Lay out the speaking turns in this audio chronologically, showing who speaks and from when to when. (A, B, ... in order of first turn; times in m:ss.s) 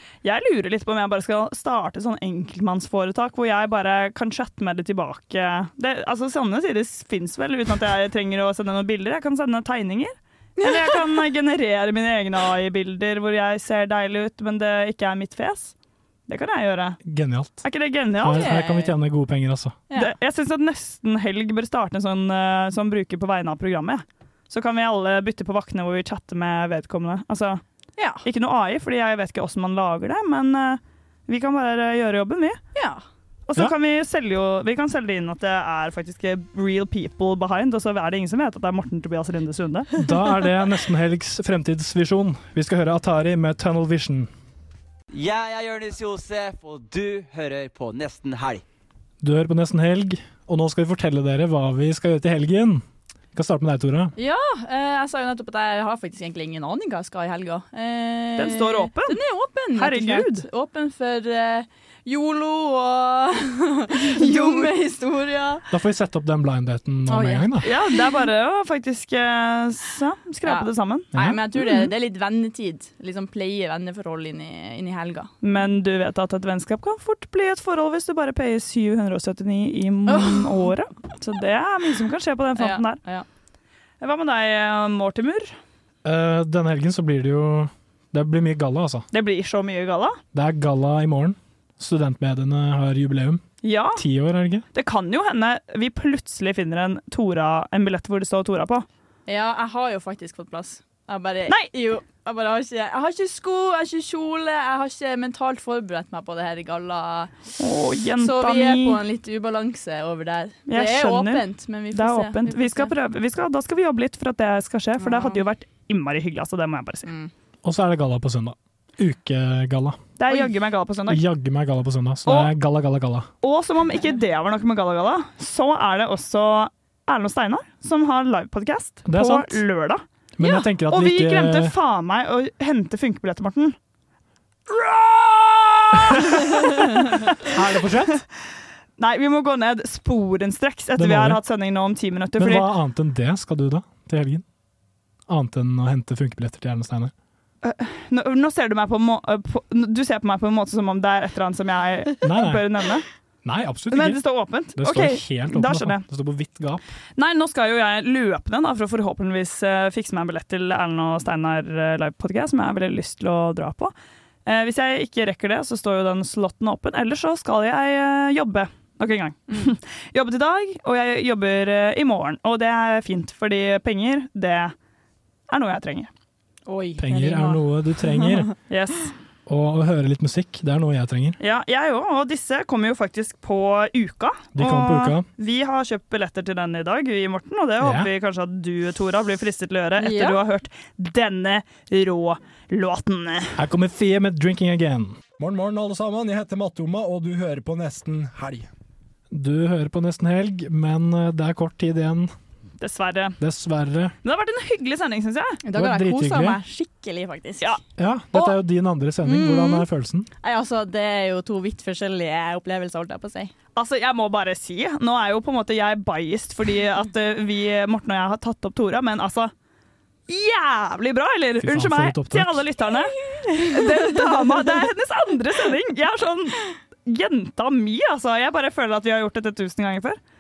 0:00.2-0:15.7 A
0:10.6-0:11.0 B
0:16.3-0:17.0 A
0:17.0-0:17.6 C
0:17.6-0:18.5 A
0:18.2-0:19.8 C
0:18.2-0:18.9 B
0:19.9-0:27.6 A
0:28.0-0:28.2 B
0:28.2-0:32.6 A
0:32.7-0:33.0 B
0:33.5-0:39.9 A
0:40.0-0:44.3 C
0:45.1-0:48.6 D
0:49.2-0:52.8 C
0:53.3-0:54.1 C
0:54.2-1:05.7 B
0:58.4-0:59.2 A
0:59.7-1:00.4 A
1:04.0-1:04.7 A
1:05.7-1:07.7 C
1:07.1-1:07.9 B
1:07.6-1:11.1 A
1:10.4-1:15.3 B
1:11.1-1:11.4 C
1:15.4-1:23.0 A
1:20.1-1:20.6 B
1:22.6-1:23.2 B
1:24.0-1:25.6 A
1:26.0-1:29.0 C
1:29.1-1:30.2 A
1:30.3-1:33.4 C
1:33.6-1:34.0 A
1:33.9-1:34.6 C
1:34.7-1:38.8 A
1:39.3-1:47.3 B
1:47.6-1:49.0 A
1:48.2-1:52.9 B
1:50.7-1:57.1 A
1:55.0-1:55.4 B
1:57.0-1:57.3 B
1:57.6-2:00.0 C
2:00.2-2:01.2 A
2:01.1-2:03.3 C
2:02.2-2:02.5 A
2:03.4-2:13.7 A
2:09.0-2:09.6 C
2:10.4-2:11.7 C
2:14.7-2:17.5 A
2:16.1-2:16.6 C
2:17.4-2:18.2 C
2:19.0-2:22.7 A
2:21.0-2:21.4 C
2:22.4-2:24.4 C
2:25.3-2:27.1 C
2:27.6-2:33.0 A
2:32.2-2:32.6 C
2:33.4-2:34.2 C
2:33.9-2:36.0 A
2:34.7-2:36.8 C
2:37.2-2:43.9 A
2:44.4-2:54.7 A
2:55.5-2:56.1 A
2:56.7-2:58.5 B
2:57.0-2:58.5 C
2:58.7-2:59.1 A
2:59.4-3:01.4 C
3:01.4-3:13.6 A
3:04.6-3:05.2 C
3:07.8-3:08.1 C
3:10.0-3:10.4 B
3:13.6-3:15.2 C
3:15.4-3:18.7 E
3:19.3-3:22.3 C
3:22.8-3:23.4 A
3:23.4-3:24.1 C
3:24.2-3:25.6 A
3:25.6-3:27.7 B
3:25.7-3:26.6 C
3:28.0-3:30.3 C
3:29.2-3:29.9 B
3:30.4-3:33.5 B
3:33.8-3:39.5 A
3:40.3-3:50.2 A
3:41.6-3:42.6 C
3:43.2-3:44.8 B